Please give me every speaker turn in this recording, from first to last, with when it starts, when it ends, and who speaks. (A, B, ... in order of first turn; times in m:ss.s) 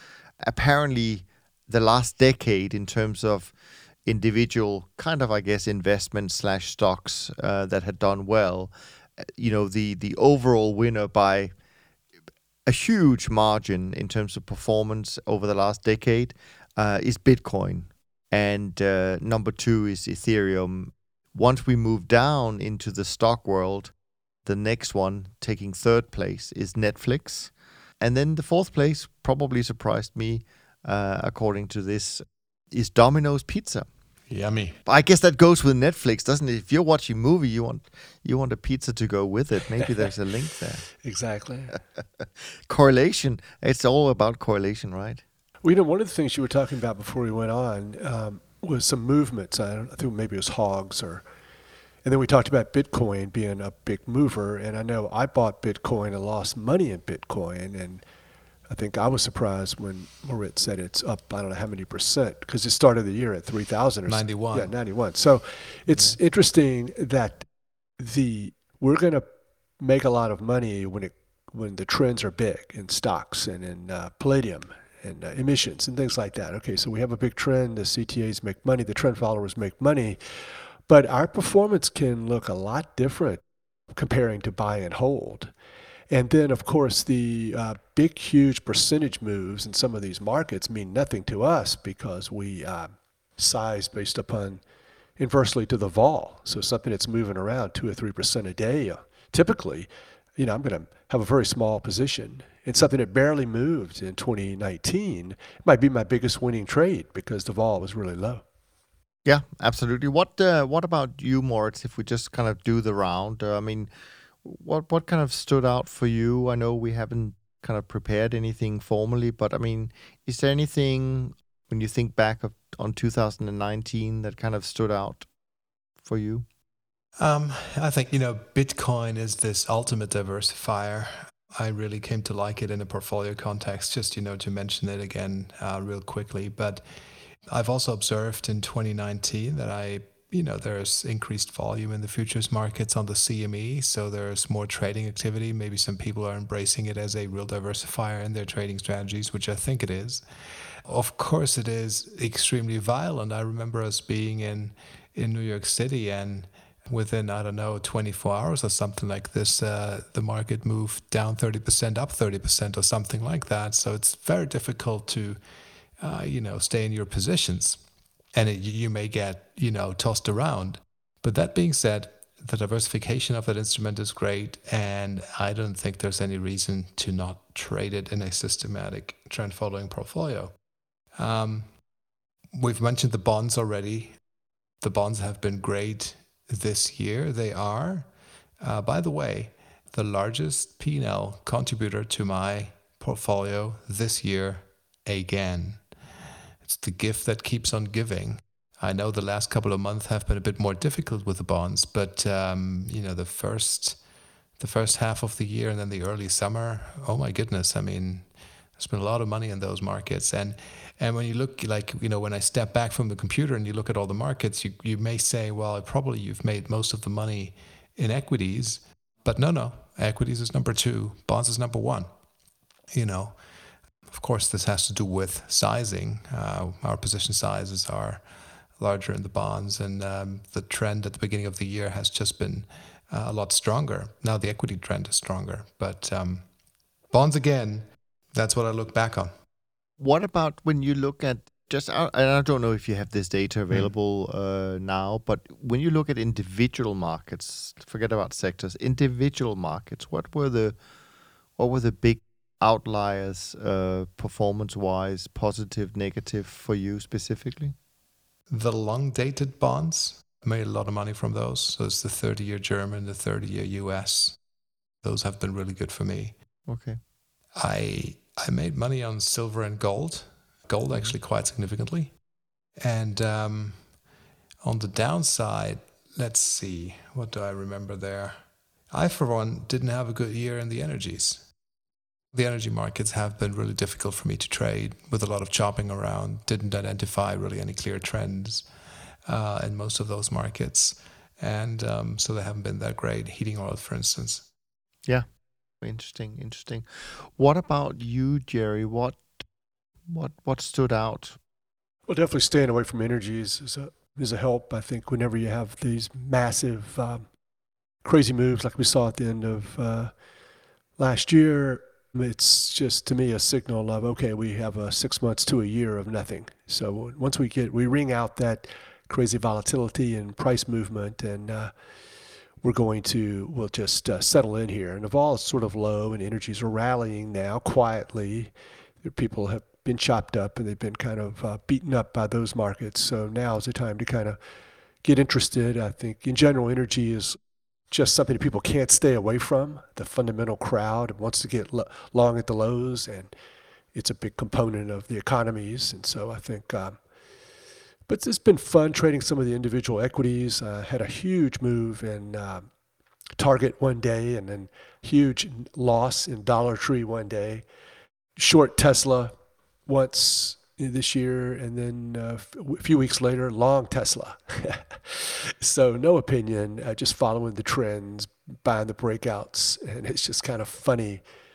0:00.4-0:03.5 A
0:04.0-0:11.5 A
0:12.7-0:23.9 A
0:24.4-0:33.9 A
0:34.3-0:34.8 B
0:34.8-0:40.9 A
0:41.0-0:41.8 C
0:42.2-0:45.2 A
0:45.6-0:51.2 C
0:52.0-0:58.0 C
0:58.7-1:07.4 C
1:04.1-1:04.7 B
1:08.0-1:09.2 C
1:09.8-1:20.2 C
1:20.9-1:23.4 C
1:23.9-1:25.5 C
1:26.1-1:34.6 C
1:35.2-1:48.4 C
1:49.2-1:53.9 A
1:54.4-2:05.3 A
2:06.0-2:06.5 A
2:07.2-2:16.8 B
2:17.5-2:30.2 B
2:30.9-2:45.4 B
2:46.0-2:47.8 B
2:48.3-3:00.5 B
3:01.2-3:01.7 B
3:02.5-3:04.2 B
3:04.8-3:08.1 B
3:08.6-3:15.8 B
3:16.6-3:24.0 B
3:24.6-3:42.1 B
3:42.9-3:43.4 B
3:44.1-3:48.2 B
3:48.8-3:56.5 B
3:57.1-3:59.3 B
4:00.0-4:10.8 A
4:11.6-4:17.8 A
4:18.5-4:24.4 B
4:25.0-4:26.3 B
4:26.7-4:27.0 A
4:27.6-4:32.1 B
4:32.8-4:33.8 B
4:34.6-4:38.4 B
4:38.9-4:41.5 B
4:42.3-4:48.7 B
4:49.3-4:54.5 B
4:55.8-4:59.4 A
5:00.1-5:01.4 A
5:02.1-5:07.2 C
5:08.0-5:10.1 C
5:11.0-5:21.7 C
5:22.6-5:28.5 C
5:29.0-5:34.4 C
5:35.0-5:37.4 C
5:37.9-5:43.3 C
5:44.0-5:47.0 C
5:48.1-5:52.6 C
5:53.4-5:57.6 C
5:58.4-5:59.3 C
5:59.9-6:11.2 C